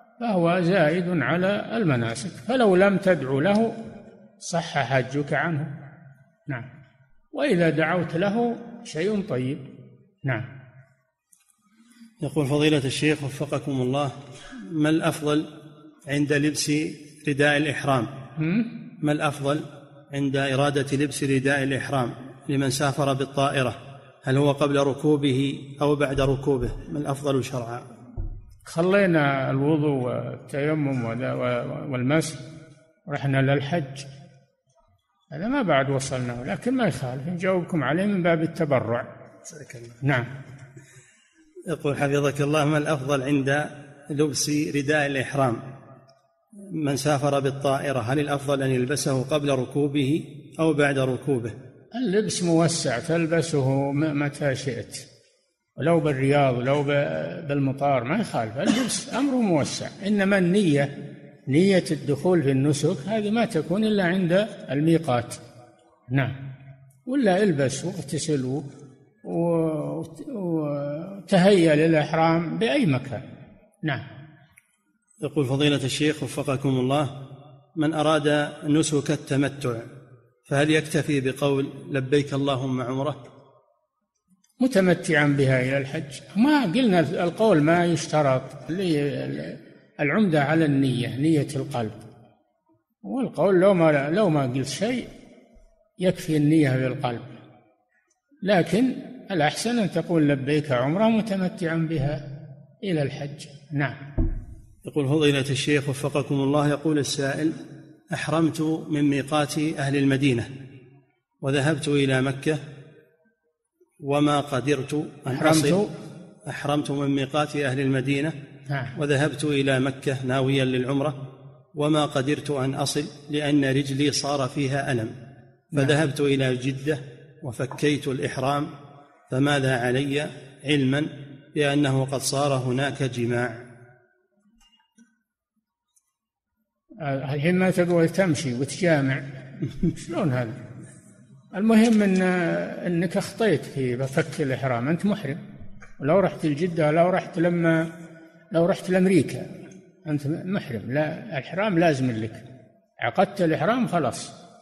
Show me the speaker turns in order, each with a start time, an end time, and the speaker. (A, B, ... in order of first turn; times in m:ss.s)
0:00.2-0:03.7 A
0:04.4-0:05.7 A
0:07.3-0:09.6 A
0:12.2-0:15.5 B
0:16.1-0:18.1 B
0:18.4-0:18.7 A
0:19.0-0:27.9 B
0:28.7-0:32.4 A
0:33.1-0:34.1 A
0:35.3-0:39.0 A
0:39.5-0:40.0 B
0:40.0-0:40.3 A
0:41.7-0:45.6 B
0:46.7-0:51.5 B
0:51.9-0:55.0 A
0:55.8-1:00.9 A
1:01.5-1:05.4 A
1:06.1-1:06.4 A
1:07.1-1:08.6 A
1:09.2-1:13.2 A
1:15.2-1:17.1 B
1:17.8-1:19.9 B
1:20.5-1:23.2 B
1:24.6-1:32.0 A
1:33.0-1:35.1 A
1:36.0-1:37.3 A
1:38.4-1:42.2 A
1:42.8-1:44.0 A
1:44.8-1:50.5 B
1:51.4-1:52.6 B
1:54.0-1:55.8 B
1:55.3-1:55.9 A
1:56.5-1:58.4 B
1:58.7-1:58.9 A
1:59.0-2:01.2 B
2:01.7-2:05.1 B
2:05.7-2:08.7 B
2:09.3-2:13.6 B
2:17.0-2:19.2 A
2:19.8-2:20.6 A
2:21.5-2:25.4 A
2:26.0-2:27.8 A
2:28.5-2:29.5 A
2:30.0-2:32.4 A
2:33.0-2:34.3 A